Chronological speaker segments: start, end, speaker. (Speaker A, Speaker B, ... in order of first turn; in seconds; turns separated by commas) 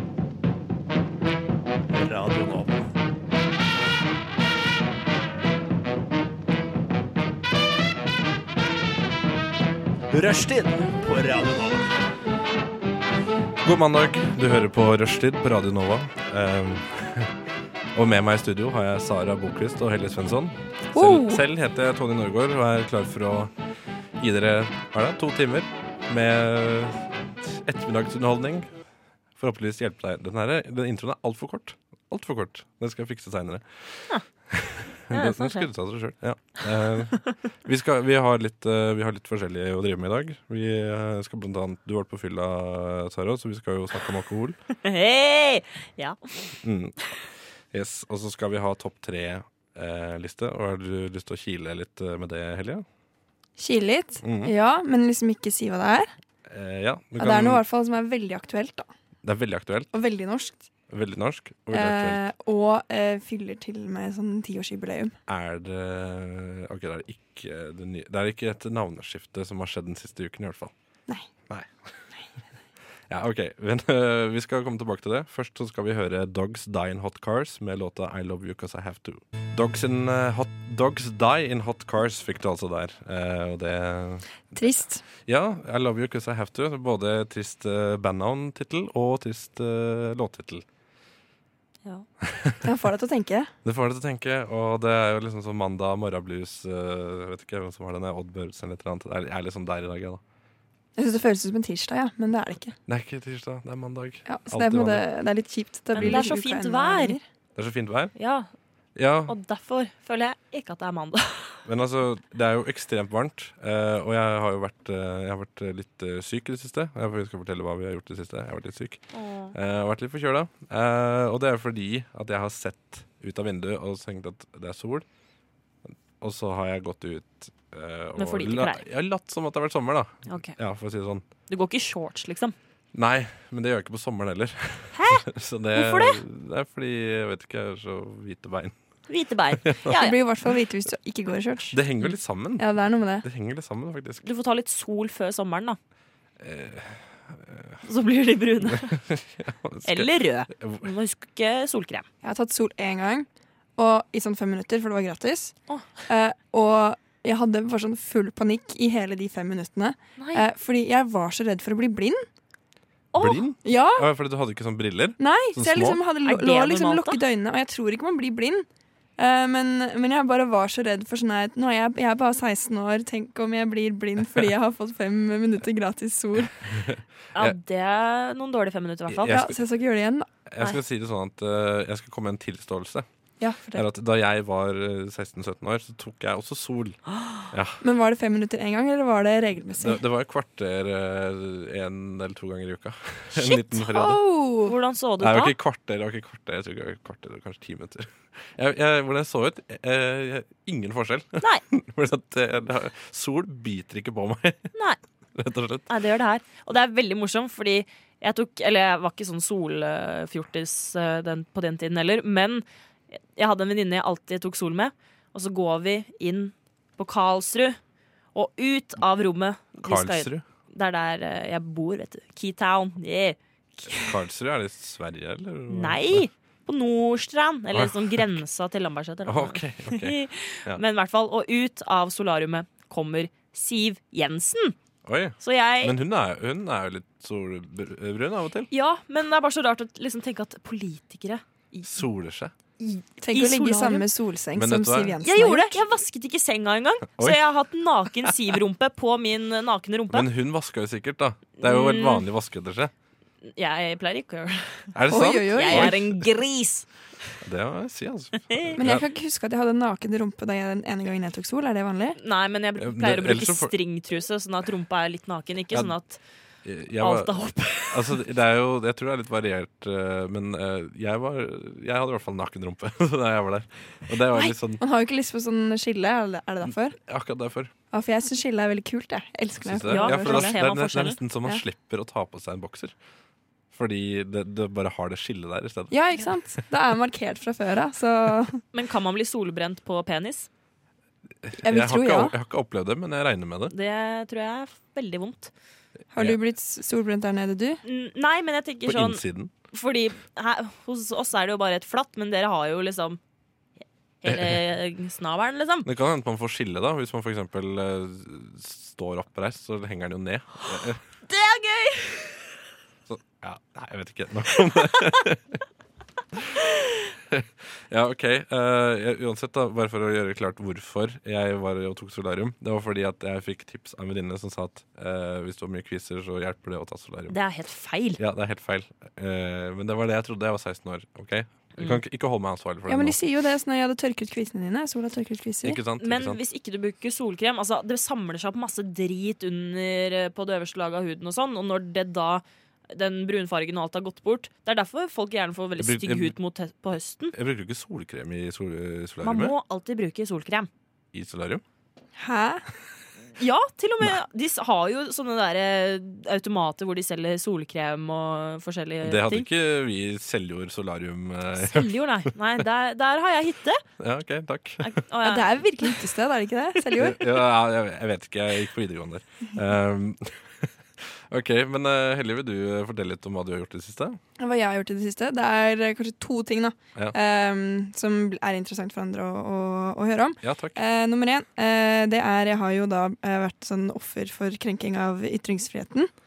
Speaker A: 1.9-2.8, Speaker A: 10.1-11.9, Speaker B: 13.6-17.3, Speaker B: 17.9-23.5, Speaker C: 20.9-21.4, Speaker B: 24.2-28.7, Speaker B: 29.4-44.6, Speaker D: 35.1-35.6, Speaker D: 44.8-46.2, Speaker B: 46.6-47.0, Speaker B: 47.7-52.8, Speaker C: 53.6-56.1, Speaker B: 54.2-54.5, Speaker B: 56.5-57.6, Speaker C: 57.2-58.9, Speaker B: 59.2-59.9, Speaker C: 59.9-60.7, Speaker B: 60.9-62.2, Speaker C: 61.7-65.1, Speaker B: 65.3-70.7, Speaker B: 73.1-84.3, Speaker C: 84.5-85.0, Speaker B: 85.2-90.7, Speaker B: 92.2-92.6, Speaker C: 92.6-93.5, Speaker B: 93.7-100.2, Speaker C: 101.0-102.8, Speaker B: 102.9-105.0, Speaker C: 104.3-107.2, Speaker D: 105.9-107.2, Speaker B: 106.0-106.2, Speaker B: 107.6-108.1, Speaker D: 108.2-108.5, Speaker B: 109.0-109.3, Speaker D: 109.3-111.6, Speaker B: 111.7-125.1, Speaker D: 119.1-119.5, Speaker B: 125.9-131.2, Speaker D: 128.2-128.8, Speaker D: 130.3-130.6, Speaker D: 131.5-132.6, Speaker B: 132.9-138.8, Speaker D: 134.9-136.2, Speaker D: 139.1-140.2, Speaker B: 139.6-140.0, Speaker C: 139.9-141.8, Speaker B: 141.7-142.7, Speaker C: 142.6-143.2, Speaker B: 143.2-144.2, Speaker D: 144.2-145.8, Speaker B: 146.4-147.8, Speaker D: 147.8-149.0, Speaker B: 148.7-150.9, Speaker D: 149.8-152.1, Speaker C: 152.2-153.2, Speaker C: 153.8-155.6, Speaker C: 156.1-162.2, Speaker D: 160.2-160.4, Speaker D: 163.1-163.4, Speaker B: 163.2-166.0, Speaker C: 163.6-164.1, Speaker C: 165.2-168.7, Speaker D: 166.2-167.2, Speaker C: 169.2-176.8, Speaker B: 176.6-177.6, Speaker D: 177.3-179.4, Speaker B: 179.1-179.6, Speaker C: 179.3-180.3, Speaker B: 180.5-183.1, Speaker C: 183.4-183.8, Speaker B: 183.7-187.0, Speaker D: 187.1-187.5, Speaker B: 187.5-187.8, Speaker C: 187.8-190.0, Speaker B: 189.8-194.2, Speaker C: 193.4-194.7, Speaker D: 194.7-195.6, Speaker B: 195.2-204.7, Speaker D: 204.7-205.0, Speaker B: 205.4-205.9, Speaker D: 205.9-217.8, Speaker D: 218.3-224.2, Speaker B: 219.8-220.4, Speaker B: 223.9-226.2, Speaker D: 225.7-234.8, Speaker B: 227.7-228.3, Speaker B: 229.3-230.8, Speaker B: 235.1-238.7, Speaker D: 235.4-236.0, Speaker D: 238.7-242.0, Speaker B: 241.8-242.5, Speaker D: 242.8-244.1, Speaker C: 243.2-245.8, Speaker B: 244.6-245.2, Speaker D: 245.2-250.3, Speaker B: 247.2-247.4, Speaker B: 250.1-252.9, Speaker D: 251.6-252.2, Speaker D: 253.4-254.9, Speaker B: 254.9-256.2, Speaker C: 255.1-255.9, Speaker D: 255.5-256.9, Speaker B: 257.4-259.1, Speaker D: 258.5-258.8, Speaker C: 258.8-262.2, Speaker D: 262.2-266.2, Speaker B: 262.8-263.7, Speaker B: 266.6-274.8, Speaker D: 267.0-268.2, Speaker C: 274.8-277.0, Speaker B: 277.0-277.7, Speaker C: 277.9-280.6, Speaker B: 279.6-282.9, Speaker D: 279.9-281.2, Speaker B: 283.7-285.9, Speaker C: 285.9-288.6, Speaker D: 288.7-290.5, Speaker B: 291.4-293.7, Speaker C: 291.6-292.3, Speaker D: 293.7-295.5, Speaker C: 296.1-297.8, Speaker D: 297.9-303.2, Speaker B: 298.9-299.5, Speaker D: 304.2-305.9, Speaker B: 304.2-304.6, Speaker B: 305.8-311.0, Speaker D: 311.3-312.5, Speaker B: 313.1-315.6, Speaker B: 317.3-327.4, Speaker D: 327.3-328.2, Speaker B: 328.2-333.2, Speaker C: 332.9-335.8, Speaker B: 335.6-336.4, Speaker D: 336.0-347.3, Speaker B: 345.8-346.4, Speaker B: 347.3-349.6, Speaker D: 349.2-350.7, Speaker B: 351.1-351.6, Speaker C: 352.2-352.6, Speaker D: 353.4-359.5, Speaker B: 359.0-362.6, Speaker D: 361.6-363.8, Speaker B: 364.0-365.0, Speaker D: 364.8-365.5, Speaker C: 365.2-367.4, Speaker B: 366.9-374.2, Speaker C: 374.4-386.1, Speaker B: 380.4-380.8